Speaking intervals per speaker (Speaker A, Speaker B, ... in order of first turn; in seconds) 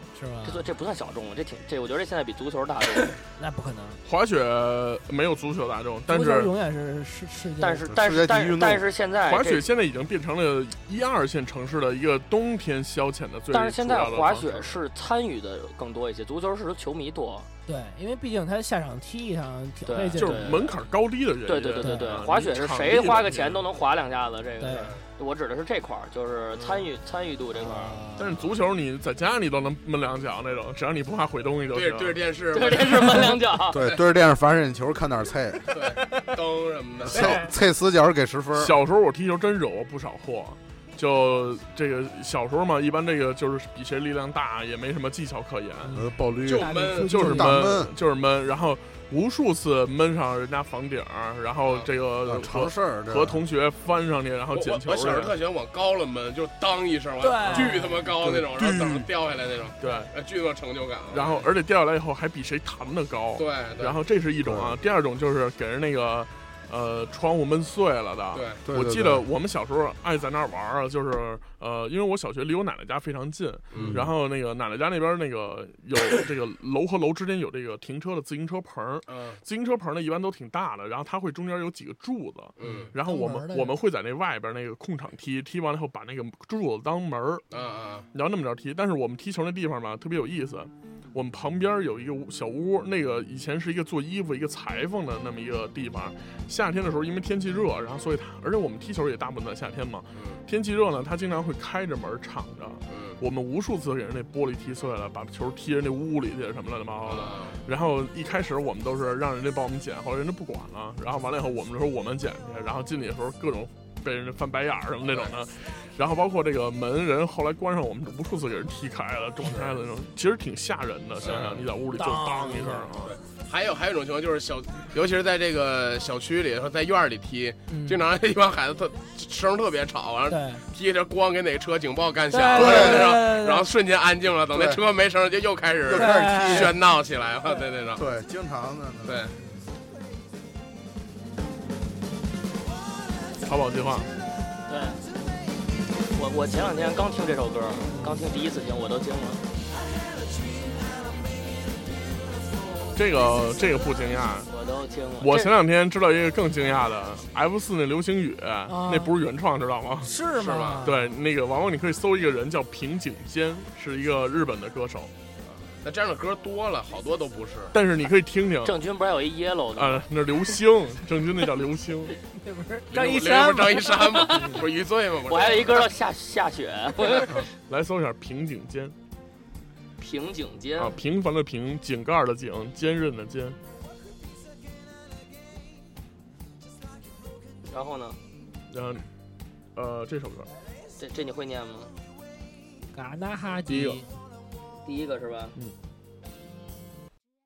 Speaker A: 0.1-0.6, 3.4-4.0, 6.1-7.9, 17.7-20.7, 21.8-22.3, 24.6-24.9, 27.6-28.5, 37.1-37.5, 45.8-47.7, 57.2-57.9, 82.9-83.8, 121.9-122.9, 127.7-128.1, 130.3-130.6, 132.3-133.7, 135.9-136.7, 158.7-159.2, 160.0-161.1, 172.4-174.0, 192.9-194.1
Speaker B: 0.4-3.2, 7.6-9.7, 13.5-17.5, 19.8-20.8, 21.5-28.0, 32.5-33.9, 144.7-145.0, 146.1-149.4, 154.5-155.6, 168.6-170.1, 174.1-174.5, 175.3-177.4, 180.0-181.0, 187.7-188.2, 191.0-191.9, 194.8-195.5
Speaker C: 4.0-6.5, 9.3-14.8, 20.2-23.6, 26.6-26.9, 28.2-32.2, 38.5-46.0, 47.0-55.4, 59.8-60.1, 61.1-87.5, 88.1-123.2, 143.4-144.1, 152.9-154.5, 155.2-160.1, 160.8-165.1, 167.7-168.8, 169.8-172.2, 174.3-174.7, 177.3-178.9, 180.8-183.6, 188.7-189.0, 189.8-190.5, 193.7-194.0
Speaker D: 7.9-8.9, 33.7-35.8, 37.0-38.7, 45.9-47.9, 52.2-53.4, 58.0-59.1, 64.4-64.8, 68.7-69.3, 73.8-74.1, 132.5-133.2, 134.5-134.8, 135.8-136.8, 138.0-139.3
Speaker E: 31.7-33.2, 35.7-37.4, 46.4-47.1, 54.5-61.5, 63.4-64.0, 68.3-68.6, 73.7-74.0, 79.1-79.4, 82.6-82.9, 87.5-88.1, 102.9-103.2, 107.0-107.6, 115.1-115.3, 119.4-119.7, 121.2-121.7, 123.0-138.0, 139.1-139.4, 160.3-160.9, 165.8-167.8, 172.9-175.9